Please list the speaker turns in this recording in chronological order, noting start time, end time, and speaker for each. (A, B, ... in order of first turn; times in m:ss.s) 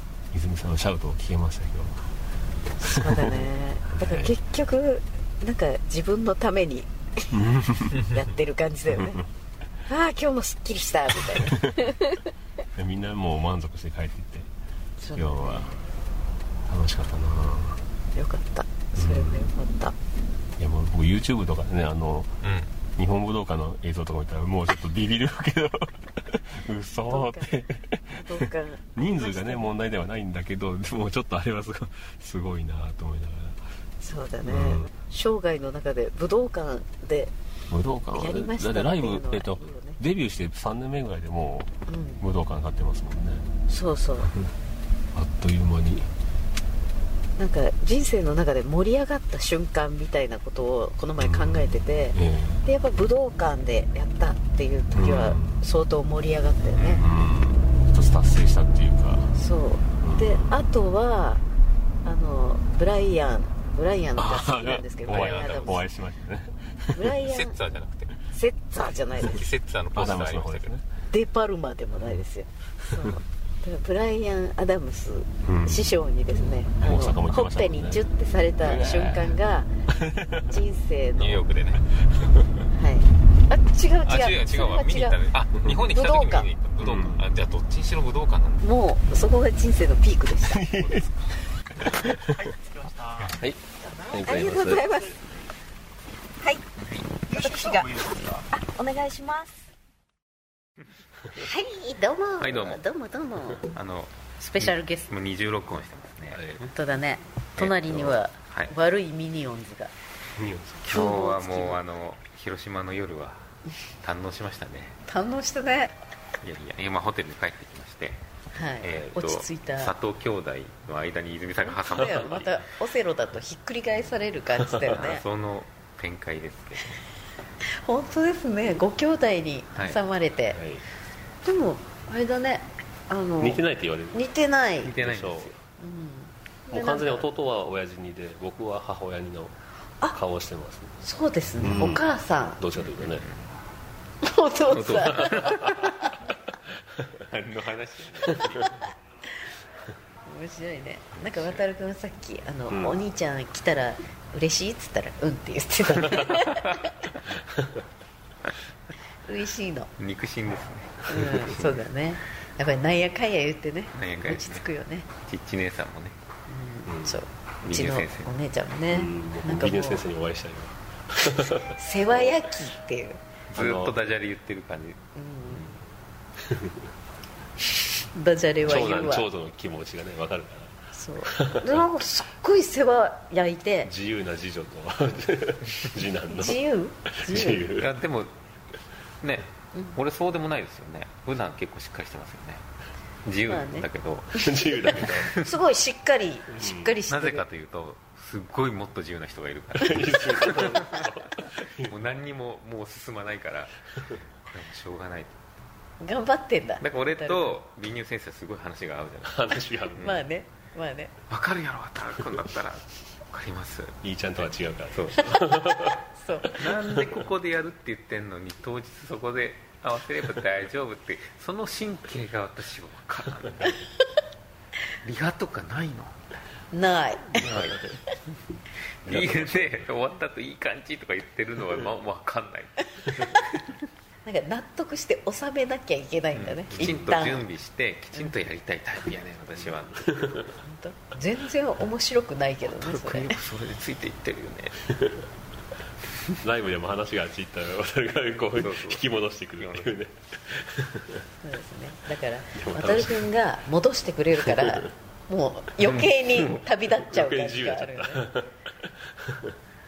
0:00.3-0:02.1 A
0:02.8-0:09.2 B
0:02.8-0:04.4 A
0:07.3-0:08.0 A
0:08.9-0:09.3 A
0:09.9-0:12.3 B
0:11.3-0:11.9 A
0:12.8-0:14.5 A
0:15.0-0:15.7 B
0:15.2-0:15.8 A
0:16.7-0:17.8 A
0:18.1-0:19.9 B
0:19.0-0:19.5 A
0:20.6-0:22.3 A
0:22.4-0:22.7 C
0:23.0-0:33.6 A
0:27.1-0:27.5 B
0:28.1-0:29.7 B
0:34.0-0:37.3 B
0:34.4-0:34.9 A
0:37.7-0:43.5 A
0:38.1-0:40.0 B
0:41.9-0:42.2 B
0:43.7-0:44.3 B
0:44.2-0:44.5 A
0:45.1-0:46.1 A
0:47.4-0:57.0 B
0:51.2-0:52.6 A
0:54.9-0:55.6 A
0:56.8-0:57.0 C
0:57.0-0:59.3 A
0:59.4-1:01.4 B
1:00.0-1:00.5 A
1:02.0-1:05.8 B
1:04.2-1:07.2 A
1:05.1-1:05.8 C
1:06.9-1:07.6 B
1:07.2-1:08.2 C
1:08.3-1:09.4 B
1:09.2-1:10.7 C
1:09.9-1:10.8 A
1:11.1-1:19.7 B
1:15.4-1:18.1 A
1:18.6-1:19.4 A
1:19.9-1:20.5 A
1:20.5-1:21.4 B
1:21.2-1:21.9 C
1:22.1-1:22.4 A
1:22.7-1:25.2 B
1:24.0-1:28.7 C
1:25.9-1:26.5 B
1:26.8-1:27.2 A
1:28.6-1:30.6 B
1:30.4-1:32.6 A
1:30.8-1:31.1 C
1:33.2-1:35.0 A
1:34.2-1:35.2 B
1:36.8-1:37.1 C
1:37.3-1:39.5 B
1:41.4-1:43.7 B
1:42.4-1:42.8 C
1:43.6-1:46.5 C
1:44.4-1:45.1 B
1:46.3-1:46.7 A
1:46.7-1:49.9 B
1:47.6-1:48.7 C
1:50.4-1:51.1 A
1:50.9-1:55.0 C
1:50.9-1:51.8 B
1:55.1-1:55.9 B
1:56.4-1:58.2 C
1:58.5-1:59.9 B
1:58.8-2:02.6 C
2:01.6-2:05.2 B
2:02.0-2:02.3 A
2:04.9-2:07.0 C
2:07.6-2:10.6 B
2:10.5-2:10.8 A
2:11.4-2:13.6 B
2:13.4-2:14.2 A
2:14.1-2:14.9 B
2:14.8-2:15.5 C
2:14.9-2:15.6 A
2:15.8-2:17.3 B
2:16.7-2:19.6 A
2:20.1-2:21.0 A
2:21.0-2:22.6 B
2:21.6-2:22.0 A
2:22.6-2:23.3 A
2:23.0-2:23.4 C
2:24.2-2:26.1 B
2:24.7-2:26.2 C
2:26.9-2:27.2 A
2:27.3-2:28.8 C
2:28.2-2:28.6 A
2:30.2-2:36.9 B
2:31.2-2:31.6 C
2:32.7-2:33.0 A
2:37.3-2:37.8 A
2:39.2-2:39.9 B
2:40.0-2:41.8 C
2:41.1-2:45.1 B
2:44.0-2:44.6 C
2:45.2-2:46.2 C
2:46.5-2:50.0 B
2:46.9-2:47.2 A
2:47.6-2:48.3 C
2:48.9-2:51.8 A
2:51.7-2:53.2 B
2:53.5-2:55.6 C
2:53.5-2:54.0 A
2:55.1-2:55.7 B
2:56.4-2:56.9 A
2:58.1-2:59.3 B
2:58.6-3:01.8 A
3:00.9-3:03.9 B
3:03.8-3:06.6 A
3:06.3-3:07.7 B
3:07.1-3:07.9 A
3:07.7-3:08.3 C
3:09.2-3:12.6 C
3:13.2-3:15.4 C
3:13.5-3:13.9 B
3:14.3-3:15.4 A
3:15.0-3:17.4 B
3:16.5-3:17.0 A
3:17.1-3:21.1 C
3:19.7-3:21.9 A
3:21.8-3:25.4 C
3:26.0-3:27.5 B
3:26.8-3:30.2 C
3:29.2-3:30.1 A
3:30.0-3:31.1 B
3:31.3-3:35.4 C
3:34.0-3:36.0 A
3:36.2-3:36.5 B
3:36.5-3:37.2 A
3:36.5-3:43.8 C
3:45.0-3:46.4 C
3:46.7-3:47.5 B
3:47.4-3:48.0 A
3:47.4-3:47.9 C
3:49.0-3:53.4 C
3:49.1-3:49.9 A
3:54.2-3:57.5 B
3:56.4-4:00.4 C
3:56.7-3:57.0 A
3:59.6-4:00.5 A
4:00.6-4:03.3 B
4:02.7-4:04.9 C
4:06.4-4:11.2 A
4:08.5-4:10.0 C
4:11.4-4:18.2 B
4:12.5-4:13.3 A
4:14.4-4:14.9 A
4:15.8-4:16.6 C
4:17.0-4:19.6 A